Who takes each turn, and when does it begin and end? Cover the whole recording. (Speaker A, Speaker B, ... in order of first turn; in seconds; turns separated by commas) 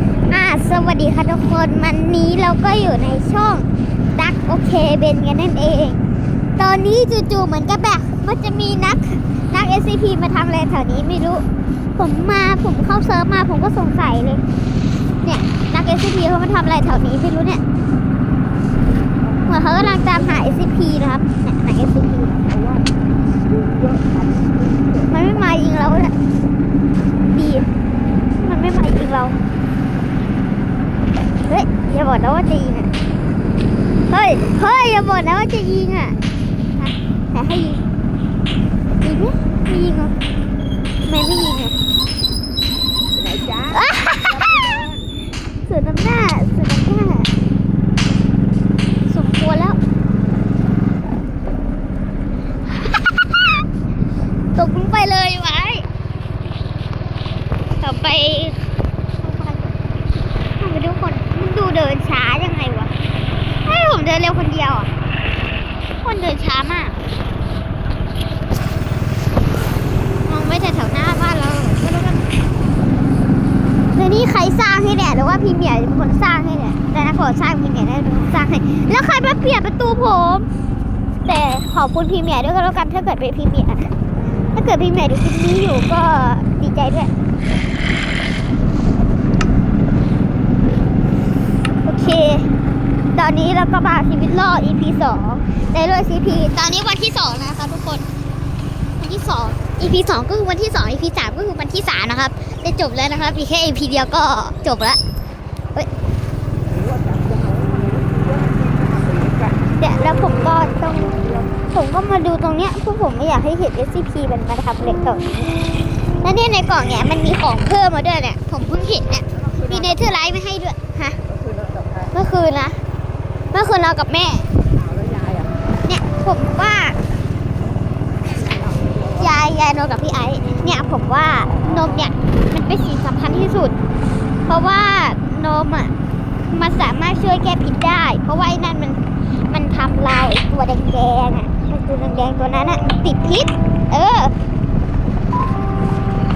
Speaker A: 0.3-6.0, Speaker A: 6.6-11.4, Speaker A: 12.0-14.4, Speaker A: 15.2-17.6, Speaker A: 19.4-22.4, Speaker B: 23.8-24.5, Speaker A: 25.0-26.1, Speaker A: 27.3-27.7, Speaker A: 28.4-29.4, Speaker A: 31.4-32.9, Speaker A: 34.1-36.2, Speaker A: 36.8-37.8, Speaker A: 39.0-40.1, Speaker A: 41.0-41.8, Speaker B: 43.2-43.6, Speaker A: 43.7-44.7, Speaker A: 45.7-47.3, Speaker A: 49.1-49.8, Speaker A: 54.5-55.9, Speaker A: 57.8-58.6, Speaker A: 59.2-59.8, Speaker A: 60.6-62.9, Speaker A: 63.6-64.9, Speaker A: 66.0-67.0, Speaker A: 70.2-72.3, Speaker A: 73.9-80.5, Speaker A: 81.2-83.9, Speaker A: 84.5-87.1, Speaker A: 91.8-92.5, Speaker A: 93.1-98.0, Speaker A: 99.0-105.0, Speaker B: 107.3-108.1, Speaker B: 108.6-109.4, Speaker A: 109.7-115.3, Speaker A: 116.2-121.2, Speaker A: 122.1-122.8, Speaker A: 123.5-124.5, Speaker A: 125.8-127.0, Speaker A: 129.1-133.8, Speaker A: 134.5-135.9, Speaker A: 136.5-144.3